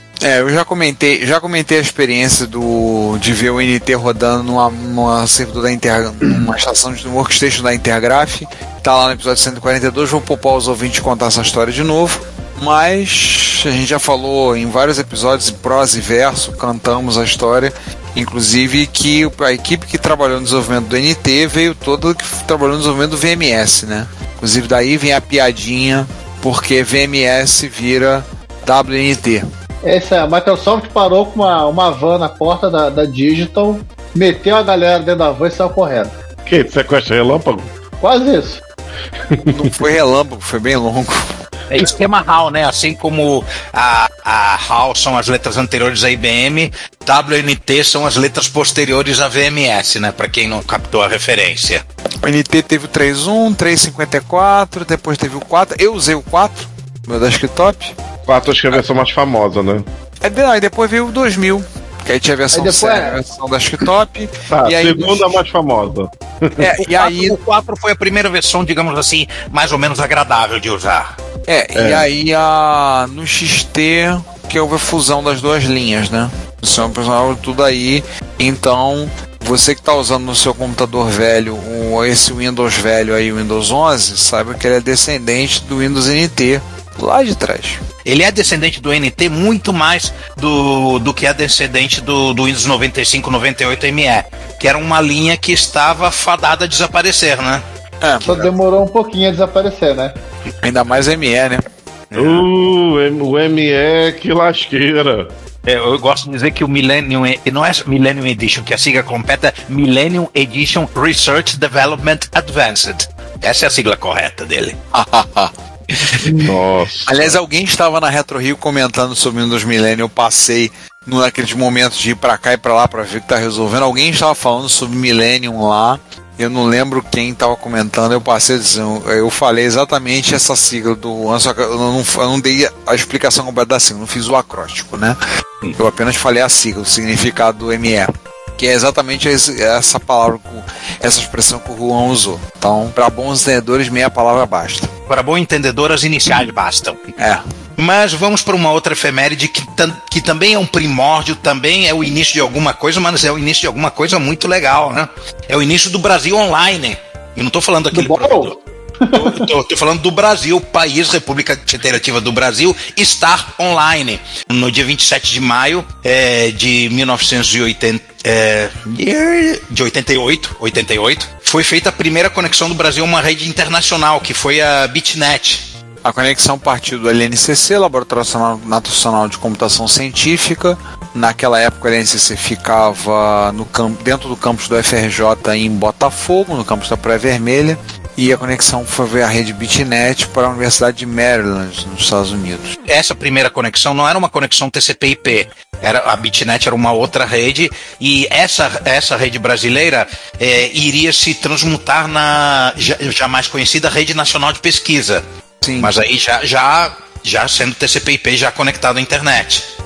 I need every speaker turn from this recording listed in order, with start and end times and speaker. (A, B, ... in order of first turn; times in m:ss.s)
0:00.2-0:29.4 A
0:29.8-0:36.1 B
0:36.5-0:37.7 C
0:38.0-0:38.6 B
0:39.3-0:39.7 C
0:39.5-0:41.3 A
0:41.7-0:51.8 D
0:52.2-0:58.0 A
0:58.3-0:59.9 C
1:00.2-1:05.4 A
1:02.5-1:03.2 B
1:04.5-1:06.6 C
1:06.6-1:07.4 A
1:06.9-1:11.2 D
1:11.5-1:27.8 A
1:11.8-1:12.1 C
1:28.0-1:37.6 D
1:38.0-1:38.5 A
1:38.2-1:40.1 B
1:40.6-1:41.6 A
1:42.1-1:42.5 D
1:42.2-1:45.3 C
1:45.6-1:54.8 D
1:54.9-1:55.5 A
1:56.3-1:57.4 C
1:57.1-2:15.2 A
2:15.8-2:24.9 A
2:25.1-2:27.1 D
2:27.8-2:38.6 D
2:37.9-2:39.5 B
2:39.1-2:55.7 D
2:56.0-3:12.8 A
3:12.9-3:25.2 D
3:25.6-3:25.9 A
3:25.8-3:29.7 D